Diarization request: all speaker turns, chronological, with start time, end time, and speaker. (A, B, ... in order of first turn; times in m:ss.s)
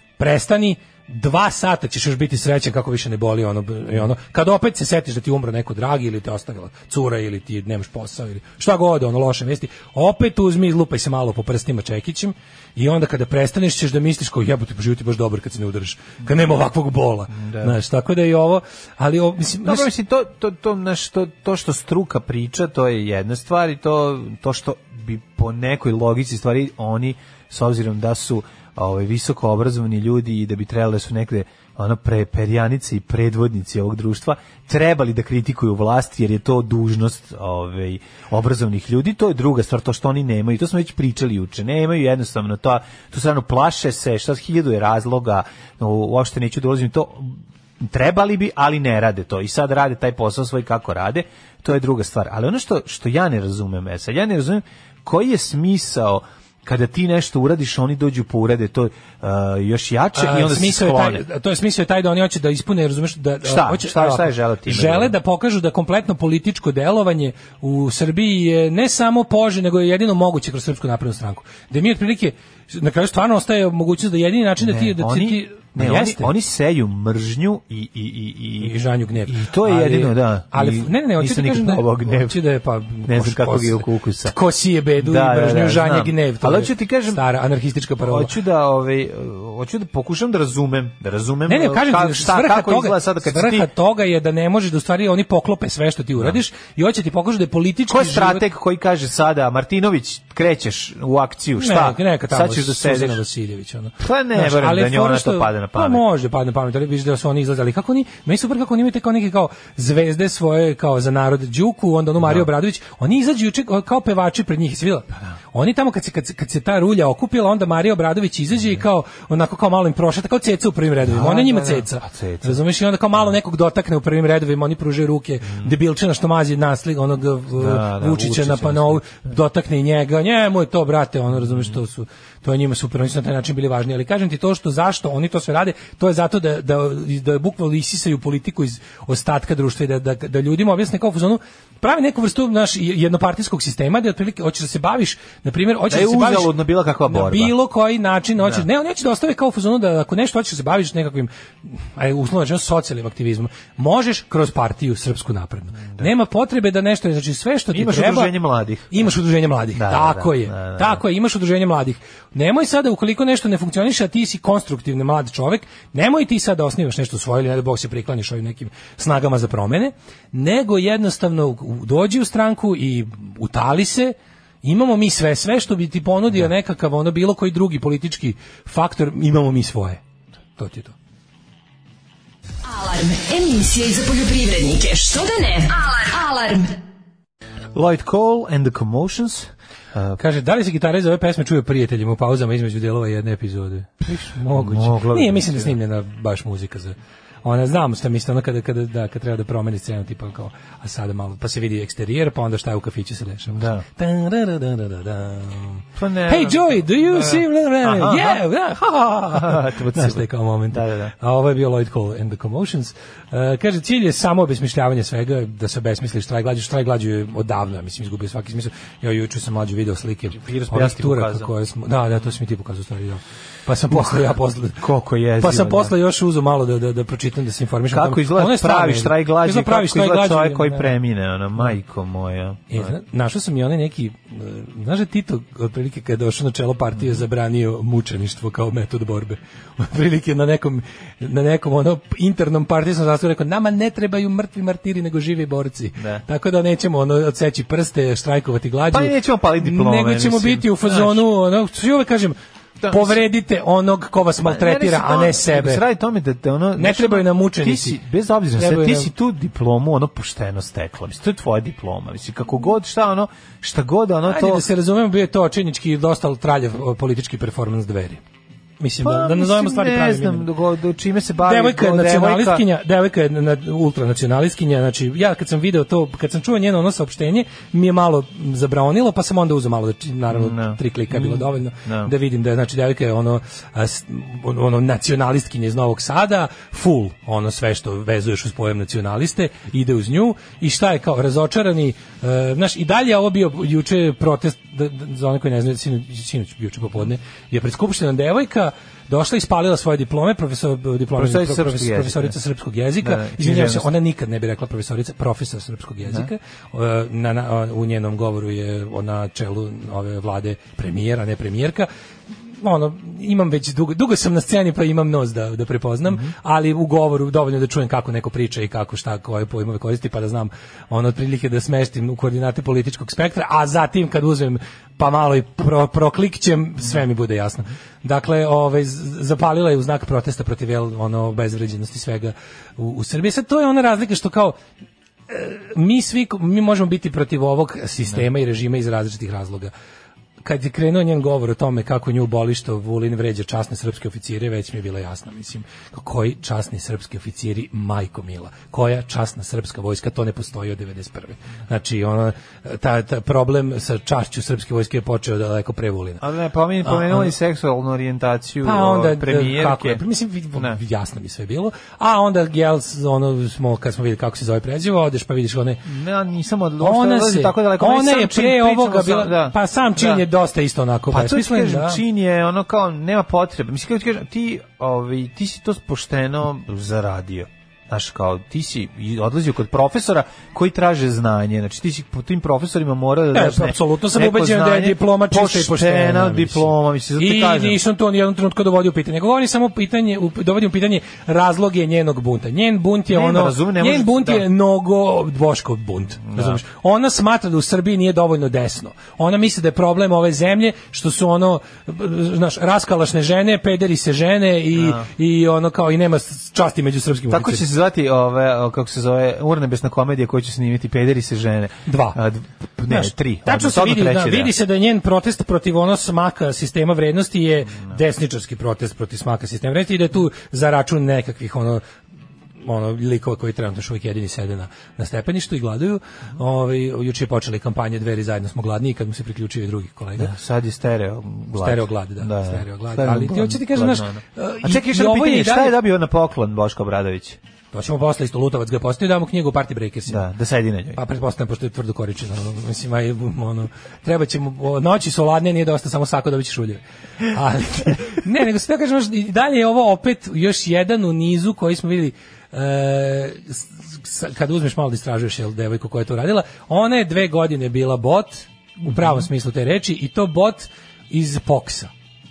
0:00.2-0:19.9 A
0:17.4-0:17.7 B
0:19.6-1:01.2 B
1:00.1-1:16.3 A
1:03.4-1:05.1 B
1:14.6-1:22.4 B
1:18.6-1:28.3 A
1:23.0-1:24.3 B
1:25.0-1:27.2 B
1:28.0-1:33.7 B
1:31.5-1:38.4 A
1:37.9-1:43.2 B
1:41.6-2:38.4 A
1:44.0-1:46.0 B
1:52.2-1:52.5 B
2:01.0-2:02.6 B
2:05.4-2:05.7 B
2:07.5-2:09.0 B
2:25.9-2:27.5 B
2:28.4-2:28.6 B
2:37.7-2:39.1 B
2:38.9-3:00.0 A
2:39.7-2:41.0 B
3:00.6-3:00.9 A
3:02.6-3:06.8 C
3:07.7-3:10.2 B
3:10.2-3:44.8 A
3:14.5-3:15.8 B
3:23.5-3:23.8 B
3:26.0-3:28.4 B
3:29.3-3:31.1 B
3:40.3-3:41.5 B
3:43.9-3:44.2 B
3:44.8-3:45.9 B
3:45.4-3:50.9 A
3:47.9-3:52.9 B
3:52.7-4:12.4 A
4:06.0-4:06.2 B
4:08.9-4:11.2 B
4:12.8-4:13.2 B
4:12.9-4:15.8 A
4:14.4-4:24.6 B
4:16.8-4:18.0 A
4:18.6-4:19.1 A
4:24.3-4:28.2 A
4:28.8-4:30.5 A
4:29.0-4:32.6 B
4:31.4-5:11.9 A
4:40.3-4:42.1 B
5:01.1-5:02.4 B
5:03.0-5:03.9 B
5:12.6-5:34.6 A
5:35.3-5:39.7 A
5:40.4-5:56.2 A
5:56.2-6:00.0 B
5:56.8-5:57.3 A
5:58.6-6:05.8 A
6:05.8-6:10.2 B
6:06.8-6:12.0 A
6:11.1-6:27.8 B
6:23.3-6:47.6 A
6:33.1-6:34.4 B
6:36.2-6:36.6 B
6:44.7-6:45.0 B
6:47.3-6:54.5 B
6:51.8-6:52.2 A
6:52.9-7:01.8 A
7:02.6-7:10.3 A
7:10.2-7:17.4 B
7:11.6-7:15.8 A
7:17.7-7:20.2 A
7:20.1-7:21.0 B
7:20.9-7:41.9 A